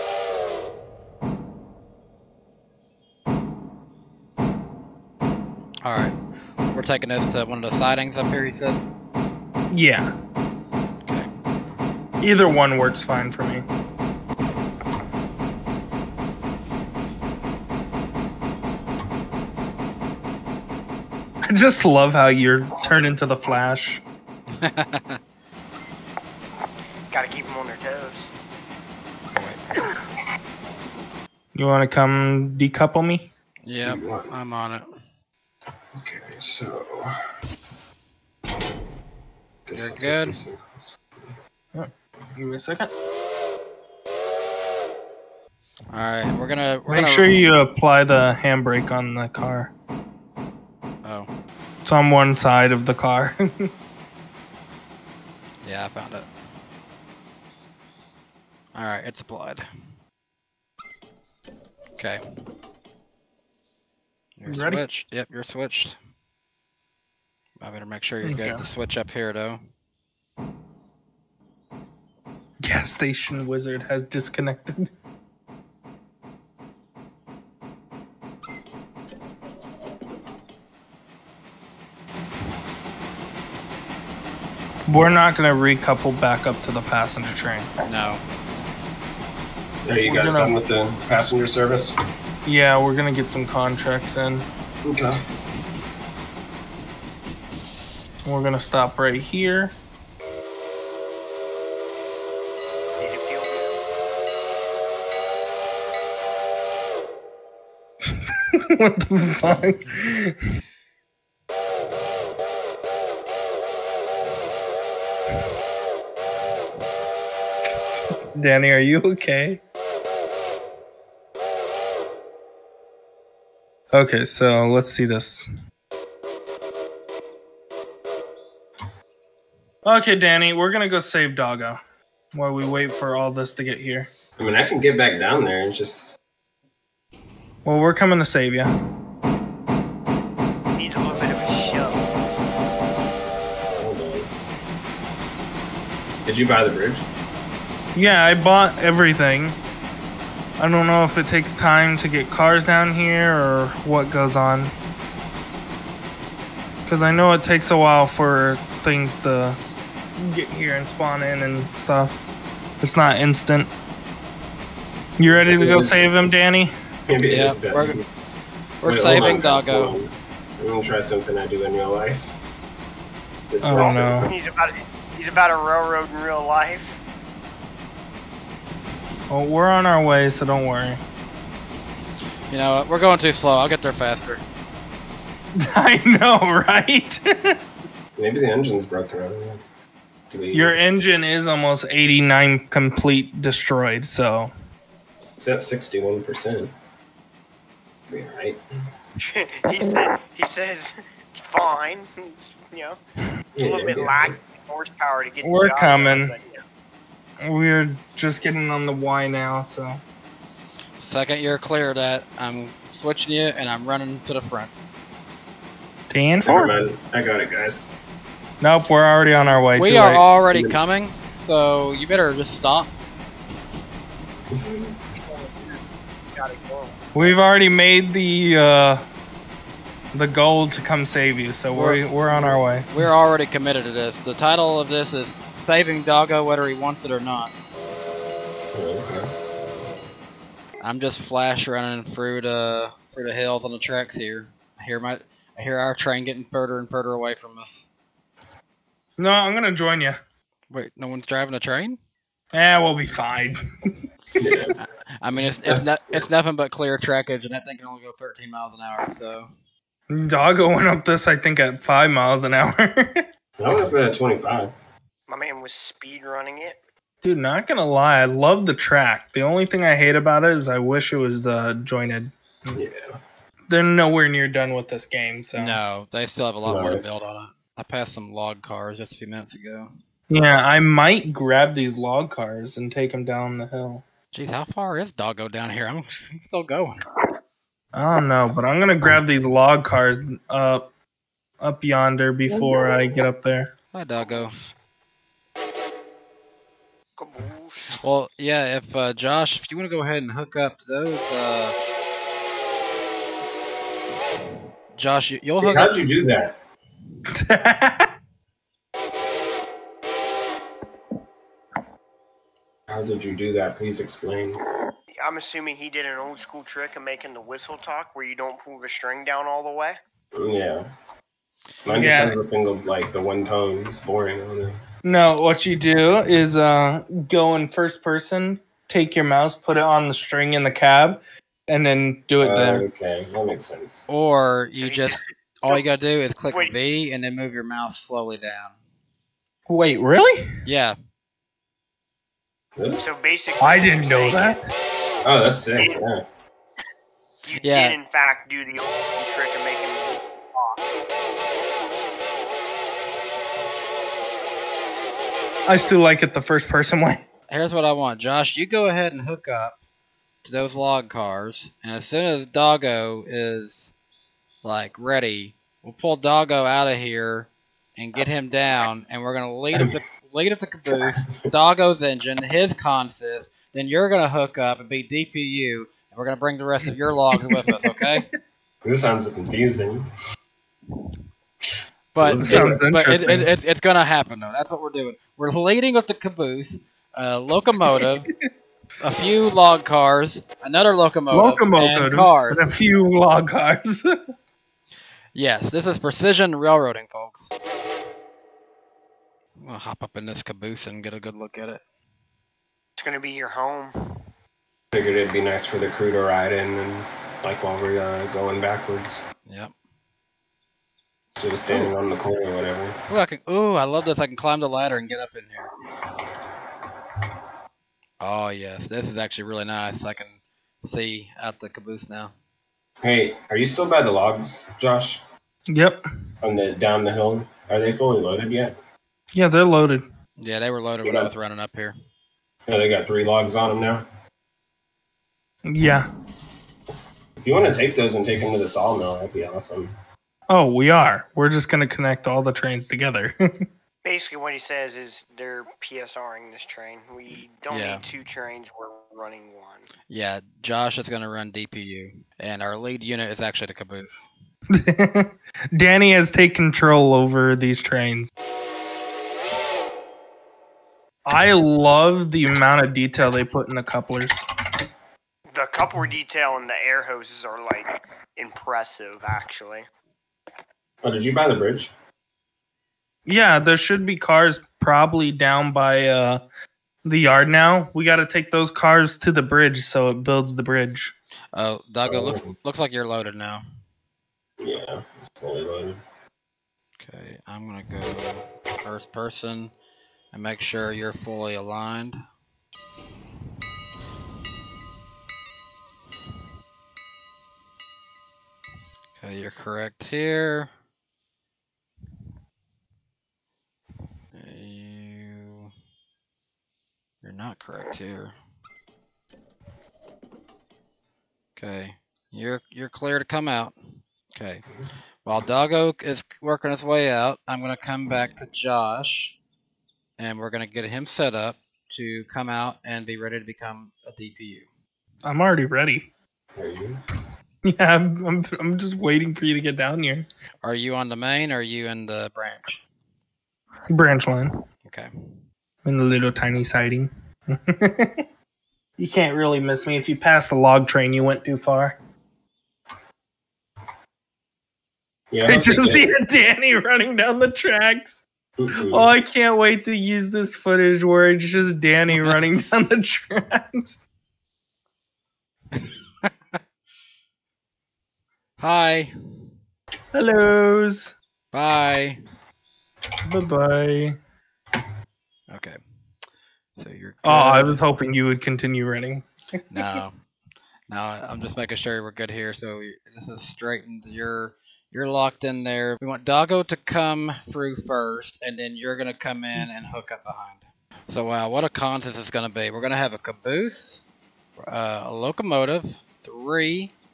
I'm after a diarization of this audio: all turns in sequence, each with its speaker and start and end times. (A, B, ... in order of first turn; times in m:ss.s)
0:05.8-0:06.2 A
0:06.7-0:08.8 A
0:09.7-0:10.1 B
0:12.2-0:13.6 B
0:21.5-0:24.0 B
0:24.6-0:25.2 A
0:27.1-0:28.3 C
0:29.3-0:29.6 A
0:31.6-0:33.3 B
0:33.7-0:34.8 A
0:33.8-0:34.4 D
0:36.0-0:37.2 D
0:39.7-0:41.3 D
0:39.7-0:40.4 A
0:41.7-0:42.9 B
0:45.9-0:47.3 A
0:46.9-0:49.7 B
0:51.0-0:51.3 A
0:51.8-0:53.7 B
0:55.6-0:56.3 A
0:58.8-0:59.6 A
1:02.0-1:02.2 A
1:04.4-1:06.0 A
1:04.5-1:04.8 B
1:07.6-1:09.6 A
1:08.2-1:08.6 B
1:12.6-1:14.9 B
1:24.9-1:27.7 B
1:27.8-1:28.2 A
1:29.8-1:31.9 D
1:30.1-1:30.6 B
1:32.4-1:34.5 B
1:34.8-1:35.2 D
1:38.2-1:39.8 B
1:43.0-1:43.8 C
1:48.5-1:50.4 B
1:58.4-1:59.6 B
2:03.9-2:05.5 B
2:09.8-2:11.8 B
2:12.3-2:14.1 B
2:14.4-2:16.2 D
2:17.6-2:18.7 B
2:20.8-2:22.1 C
2:23.8-2:24.3 D
2:26.3-2:27.1 D
2:28.0-2:29.6 B
2:30.6-2:34.7 B
2:36.9-2:42.2 B
2:42.8-2:43.7 B
2:45.2-2:46.7 B
2:45.3-2:46.1 D
2:47.1-2:48.0 D
2:47.3-2:48.0 A
2:48.8-2:50.0 A
2:48.8-2:52.4 D
2:53.5-2:54.3 D
2:53.6-2:54.3 B
2:53.7-2:57.0 C
2:59.3-3:01.0 B
3:02.5-3:04.4 A
3:05.6-3:07.6 B
3:08.2-3:09.6 D
3:10.3-3:10.8 D
3:10.5-3:14.5 B
3:15.4-3:16.7 D
3:18.1-3:18.6 D
3:19.2-3:23.0 C
3:23.6-3:24.4 D
3:23.6-3:26.6 C
3:25.4-3:26.3 B
3:27.4-3:30.0 B
3:31.0-3:34.8 A
3:36.1-3:36.8 B
3:36.4-3:37.9 D
3:38.6-3:40.2 B
3:39.8-3:42.9 A
3:40.5-3:40.8 D
3:44.6-3:44.9 D
3:45.2-3:47.0 C
3:47.1-3:49.0 B
3:50.1-3:52.9 B
3:51.7-3:52.0 A
3:52.9-3:57.6 A
3:58.7-3:59.3 D
4:00.8-4:07.9 A
4:09.2-4:10.2 B
4:10.7-4:12.0 A
4:12.5-4:13.9 B
4:14.4-4:14.8 D
4:14.8-4:19.5 A
4:15.7-4:16.3 D
4:20.1-4:23.3 B
4:23.6-4:24.7 D
4:25.3-4:26.8 C
4:27.2-4:32.8 B
4:32.7-4:33.2 D
4:33.7-4:35.8 B
4:35.6-4:39.9 A
4:36.6-4:37.0 D
4:40.3-4:44.0 B
4:44.3-4:47.0 A
4:47.9-4:50.9 B
4:51.6-4:53.7 B
4:53.9-4:54.6 A
4:54.2-4:54.7 C
4:57.2-4:58.0 C
4:57.9-5:01.8 A
5:05.0-5:06.0 A
5:05.6-5:06.6 D
5:07.4-5:08.1 B
5:12.9-5:14.6 D
5:15.2-5:20.0 C
5:20.3-5:20.9 D
5:21.8-5:24.8 D
5:21.9-5:22.4 B
5:25.0-5:32.8 B
5:32.4-5:34.1 D
5:34.1-5:38.7 A
5:34.8-5:35.8 C
5:39.7-5:40.6 B
5:40.7-5:41.0 A
5:42.8-5:43.0 D
5:43.0-5:44.6 C
5:43.6-5:44.7 B
5:45.2-5:46.2 D
5:47.5-5:50.9 C
5:47.6-5:48.0 A
5:55.7-5:57.2 B
5:57.5-5:59.8 A
6:00.4-6:04.0 A
6:04.6-6:18.3 A
6:17.3-6:18.2 B
6:18.8-6:20.1 D
6:22.1-6:28.3 A
6:22.2-6:22.8 D
6:22.3-6:23.5 B
6:29.0-6:32.7 A
6:31.3-6:34.2 B
6:35.3-6:37.5 A
6:39.6-6:41.8 A
6:43.0-6:44.2 C
6:44.9-6:49.2 D
6:49.5-6:49.7 A
6:51.4-6:53.0 D
6:51.7-6:51.9 A
6:53.1-6:55.7 A
6:58.2-7:02.3 A
7:03.0-7:05.2 D
7:05.7-7:06.0 B
7:06.4-7:08.8 D
7:09.3-7:10.0 B
7:10.4-7:12.0 A
7:11.0-7:11.3 D
7:12.7-7:14.0 D
7:15.7-7:16.1 B
7:17.4-7:19.9 D
7:20.5-7:23.4 B
7:24.0-7:29.9 C
7:27.7-7:28.0 A
7:30.1-7:34.3 A
7:34.7-7:38.3 B
7:41.3-7:44.4 B
7:45.5-7:49.9 C
7:51.0-7:51.9 D
7:53.3-7:56.4 B
7:57.0-8:01.1 B
8:01.5-8:03.6 A
8:02.1-8:02.5 D
8:04.6-8:06.0 D
8:07.0-8:09.7 A
8:10.3-8:12.2 A
8:19.2-8:20.7 A
8:24.3-8:25.7 A
8:27.2-8:28.4 A
8:31.6-8:33.7 A
8:34.4-8:34.6 A
8:35.2-8:39.4 A
8:40.2-8:44.6 A
8:45.2-8:46.1 B
8:46.6-8:47.0 D
8:47.6-8:50.3 B
8:50.6-8:52.8 A
8:53.9-8:54.6 B
8:55.8-8:58.2 B
8:59.0-9:02.0 B
9:05.3-9:06.1 D
9:05.4-9:14.1 B
9:08.6-9:09.1 D
9:15.7-9:16.3 A
9:18.6-9:19.1 A
9:20.1-9:21.1 B
9:21.5-9:22.2 A
9:23.3-9:24.2 B
9:25.5-9:25.8 A
9:26.8-9:27.8 A
9:27.2-9:29.8 B
9:29.7-9:30.2 A
9:30.9-9:44.0 A
9:44.6-9:46.9 A